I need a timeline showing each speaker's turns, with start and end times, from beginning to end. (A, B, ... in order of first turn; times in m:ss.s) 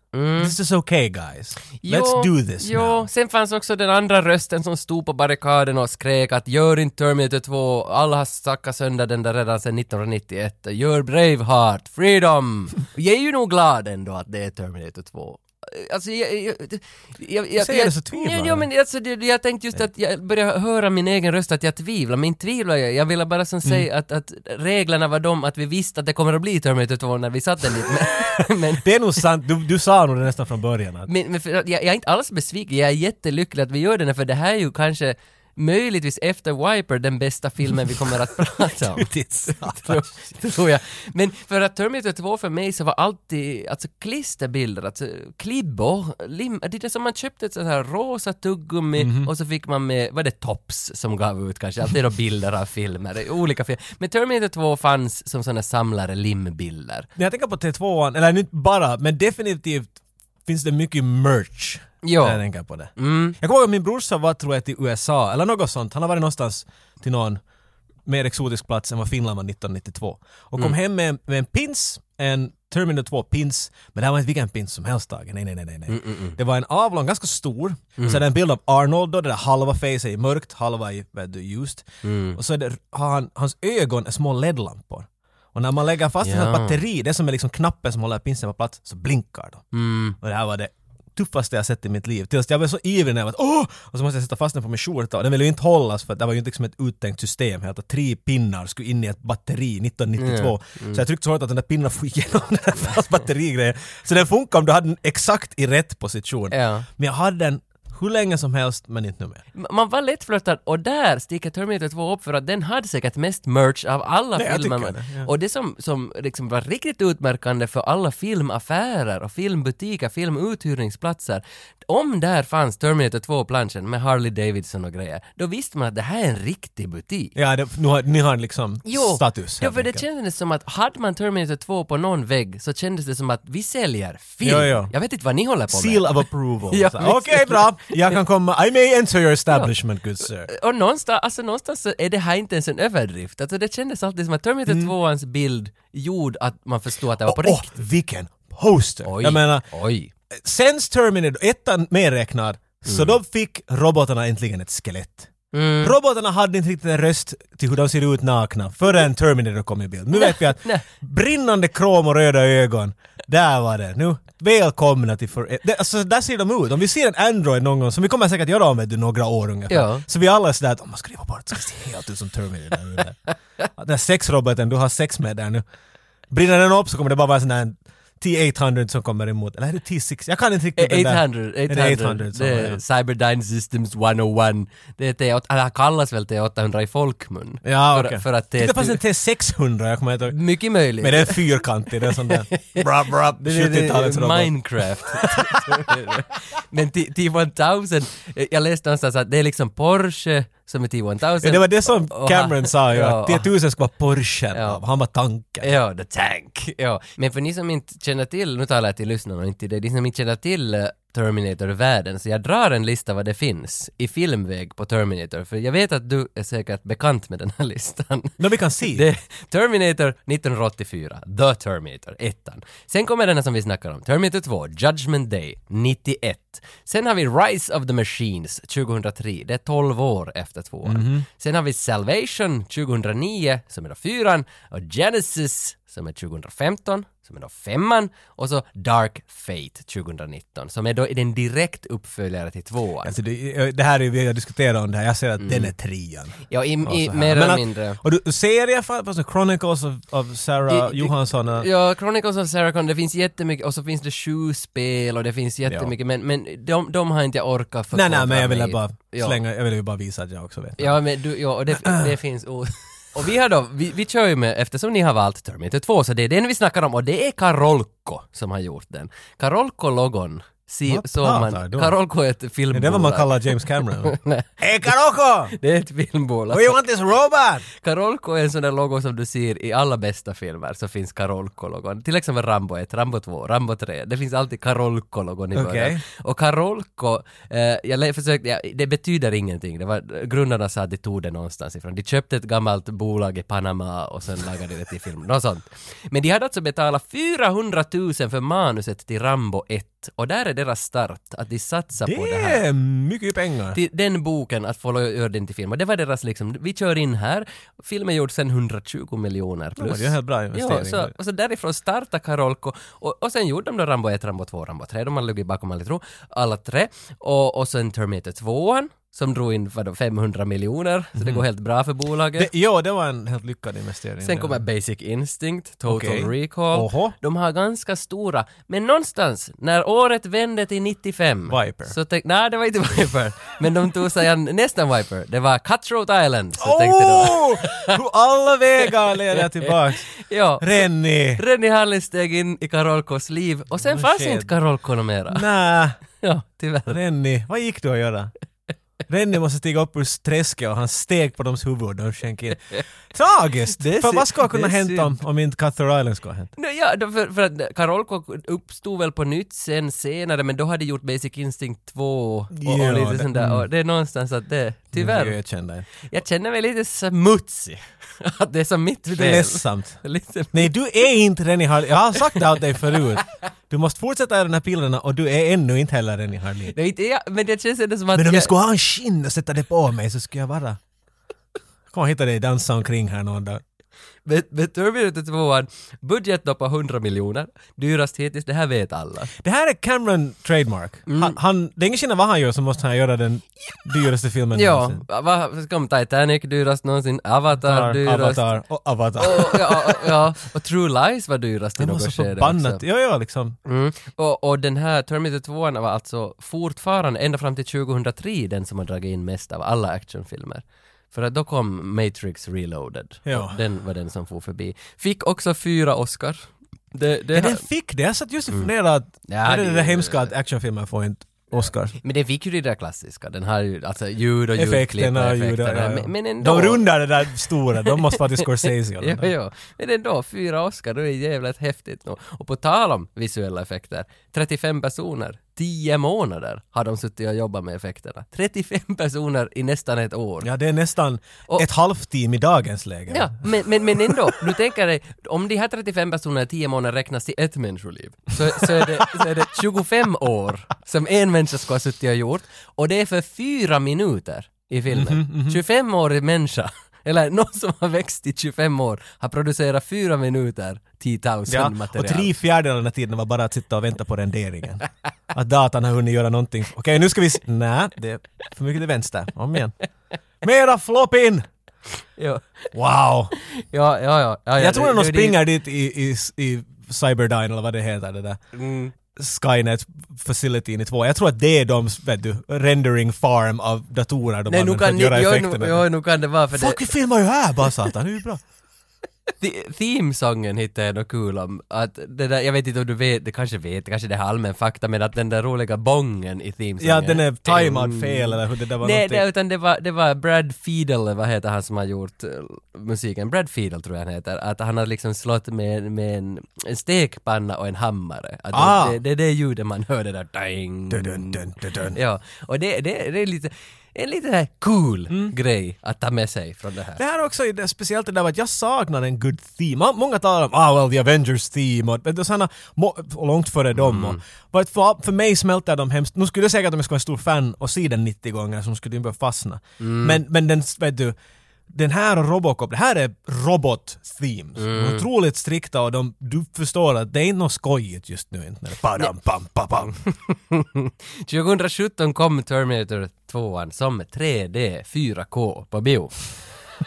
0:00.1-0:00.6 A
0:00.4-0:03.1 B
0:01.8-0:28.8 A
0:17.6-0:18.7 B
0:28.4-0:31.1 B
0:31.1-0:57.1 A
0:38.8-0:40.1 B
0:49.0-0:49.3 B
0:57.2-1:00.0 B
1:00.5-1:07.4 B
1:02.0-1:02.4 A
1:03.0-1:03.4 A
1:08.1-1:29.7 B
1:15.9-1:16.4 A
1:18.0-1:18.2 A
1:22.0-1:22.4 A
1:26.2-1:26.8 A
1:29.7-1:30.2 A
1:30.2-1:49.4 B
1:40.2-1:41.0 A
1:46.5-1:46.9 A
1:49.6-2:07.4 A
1:54.4-1:55.3 B
2:07.4-2:10.0 B
2:08.8-2:18.2 A
2:14.4-2:14.9 B
2:15.7-2:20.5 B
2:20.5-2:27.7 A
2:24.7-2:24.9 B
2:27.2-2:29.7 B
2:29.0-2:30.1 A
2:30.3-2:35.3 B
2:32.8-2:33.2 A
2:35.5-2:36.0 A
2:35.8-2:53.2 B
2:40.1-2:40.8 A
2:49.7-2:50.0 A
2:53.8-2:55.6 B
2:56.3-3:02.8 B
3:00.8-3:09.0 A
3:07.6-3:10.4 B
3:10.3-3:11.4 A
3:11.0-3:14.6 B
3:12.0-3:12.8 A
3:13.4-3:23.5 A
3:15.1-3:16.0 B
3:21.4-3:25.7 B
3:24.5-3:24.8 A
3:25.6-3:38.4 A
3:38.4-3:39.1 B
3:38.9-4:03.1 A
3:50.8-3:51.3 B
4:03.0-4:11.7 B
4:05.4-4:05.7 A
4:06.5-4:08.0 A
4:10.7-4:19.4 A
4:15.7-4:15.9 B
4:17.9-4:21.0 B
4:20.8-4:34.5 A
4:21.8-4:22.1 B
4:30.9-4:32.0 B
4:32.7-4:35.6 B
4:35.6-4:36.8 A
4:36.5-4:37.7 B
4:37.7-5:02.6 A
4:45.5-4:46.0 B
5:02.0-5:03.8 B
5:03.7-5:22.5 A
5:09.8-5:11.1 B
5:21.2-5:21.4 B
5:22.4-5:24.6 B
5:24.2-5:38.0 A
5:25.9-5:27.2 B
5:31.5-5:32.0 B
5:36.6-5:40.0 B
5:39.7-5:45.4 A
5:40.6-5:41.4 B
5:43.8-5:44.5 B
5:45.3-5:46.0 B
5:46.2-5:47.0 A
5:46.9-5:48.3 B
5:49.1-5:56.5 B
5:53.8-5:55.2 A
5:56.6-6:05.4 A
6:02.6-6:03.6 B
6:04.9-6:05.9 B
6:06.0-6:10.7 A
6:09.1-6:10.0 B
6:10.5-6:16.8 B
6:16.7-6:18.5 A
6:18.1-6:20.8 B
6:21.9-6:23.6 B
6:24.3-6:29.3 A
6:29.4-6:35.0 B
6:31.1-6:31.4 A
6:34.6-6:38.5 A
6:37.6-6:40.2 B
6:39.2-6:42.8 A
6:41.8-6:43.6 B
6:43.7-6:57.6 A
6:53.3-6:53.6 B
6:57.3-7:02.0 B
6:59.3-7:00.3 A
7:02.0-7:06.9 A
7:04.6-7:09.3 B
7:07.8-7:20.5 A
7:20.4-7:24.4 B
7:23.1-7:42.3 A
7:28.6-7:29.2 B
7:34.9-7:35.6 B
7:41.5-7:49.8 B
7:50.4-7:51.5 B
7:52.2-7:52.5 A
7:52.7-7:53.3 B
7:53.4-7:55.4 A
7:54.6-7:58.4 B
7:58.5-7:58.9 A
7:59.1-8:05.9 B
8:04.5-8:06.9 A
8:06.5-8:08.4 B
8:09.4-8:37.0 A
8:16.8-8:19.2 B
8:28.5-8:29.0 B
8:30.9-8:32.0 B
8:35.1-8:35.4 B
8:37.0-8:51.2 B
8:43.8-8:44.2 A
8:49.8-8:50.2 A
8:51.7-8:59.9 B
8:54.6-8:55.1 A
9:00.1-9:06.2 A